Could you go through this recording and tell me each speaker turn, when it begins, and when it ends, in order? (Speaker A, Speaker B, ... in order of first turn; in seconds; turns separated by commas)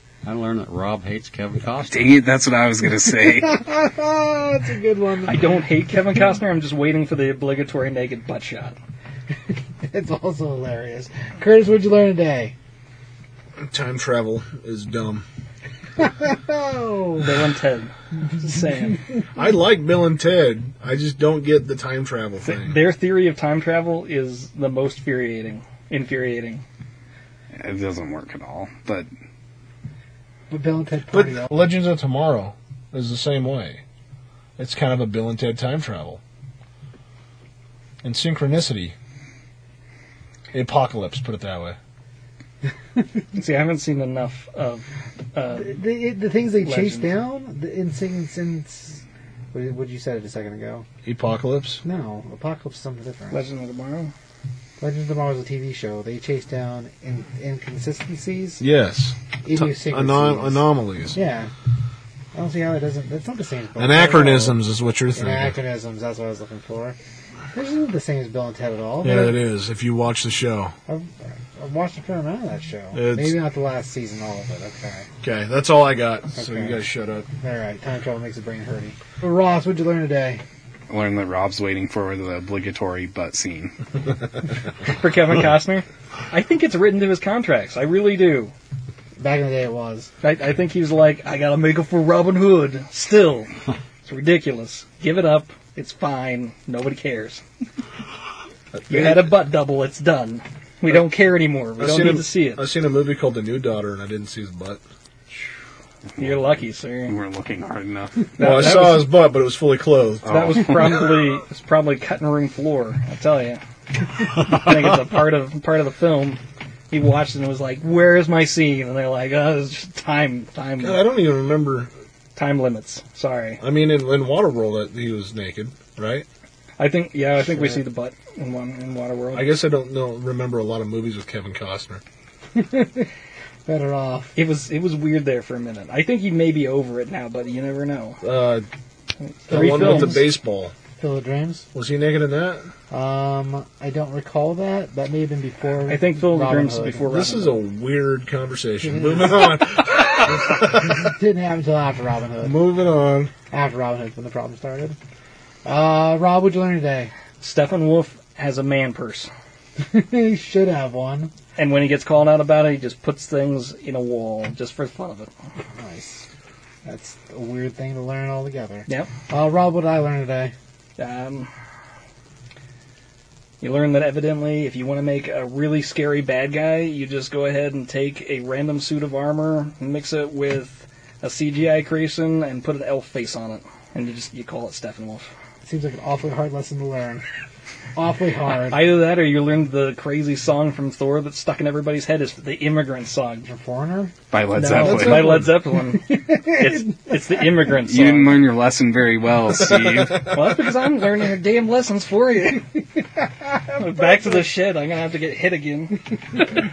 Speaker A: 0.2-2.2, Speaker B: 1.9-3.6, Speaker C: 3.1-5.4, Speaker D: 5.2-8.8, Speaker C: 9.5-12.5, Speaker E: 13.6-15.2, Speaker C: 16.0-17.3, Speaker D: 17.2-19.0, Speaker E: 19.3-22.8, Speaker D: 22.4-26.6, Speaker B: 27.6-29.1, Speaker C: 30.5-31.5, Speaker E: 31.1-33.8, Speaker E: 34.6-36.2, Speaker E: 38.0-38.9, Speaker E: 40.5-41.8, Speaker D: 43.3-45.8, Speaker C: 45.6-50.9, Speaker D: 46.6-47.1, Speaker E: 51.0-51.8, Speaker C: 51.8-53.4, Speaker D: 53.3-54.1, Speaker C: 54.8-58.6, Speaker E: 58.6-61.2, Speaker C: 59.4-61.5, Speaker C: 62.3-64.6, Speaker E: 63.8-65.6, Speaker C: 65.1-67.0, Speaker C: 67.5-69.4, Speaker E: 69.0-70.8, Speaker C: 70.9-75.1, Speaker E: 72.9-73.4, Speaker E: 75.2-77.3, Speaker C: 76.3-76.8, Speaker C: 77.3-80.4, Speaker B: 80.9-83.7, Speaker D: 84.9-88.5, Speaker C: 89.2-90.1, Speaker D: 90.2-93.5, Speaker D: 94.0-97.4, Speaker E: 98.7-99.3, Speaker D: 98.9-102.6, Speaker E: 101.8-104.8, Speaker B: 106.2-106.5, Speaker D: 106.2-107.2, Speaker B: 107.0-108.3, Speaker D: 108.4-109.1, Speaker E: 108.4-110.8, Speaker B: 110.2-111.1, Speaker D: 110.3-113.6, Speaker D: 114.3-121.0, Speaker E: 120.8-121.9, Speaker D: 122.3-123.6, Speaker E: 123.6-126.2, Speaker D: 126.8-129.6, Speaker E: 129.3-132.0, Speaker C: 132.5-133.1, Speaker C: 133.7-134.3, Speaker D: 134.3-138.2, Speaker E: 138.2-138.7, Speaker D: 139.2-140.2, Speaker C: 139.5-140.3, Speaker E: 139.5-140.7, Speaker C: 141.0-141.7, Speaker E: 141.7-142.7, Speaker C: 142.9-147.4, Speaker D: 145.9-147.6, Speaker E: 147.2-151.1, Speaker C: 148.8-149.6, Speaker C: 150.2-152.6, Speaker E: 152.4-153.3, Speaker C: 153.5-155.0, Speaker C: 155.6-157.1, Speaker D: 157.4-159.3, Speaker C: 159.8-161.3, Speaker D: 161.6-165.3, Speaker C: 165.8-166.3, Speaker C: 166.8-170.5, Speaker D: 171.0-171.5, Speaker D: 173.6-185.3, Speaker C: 185.6-187.2, Speaker C: 187.9-188.9, Speaker D: 188.7-193.5, Speaker C: 193.4-194.1, Speaker B: 194.3-195.4, Speaker D: 194.6-198.5, Speaker C: 194.7-197.1, Speaker B: 197.8-200.3, Speaker D: 200.3-202.7, Speaker C: 203.2-204.4, Speaker D: 203.8-206.0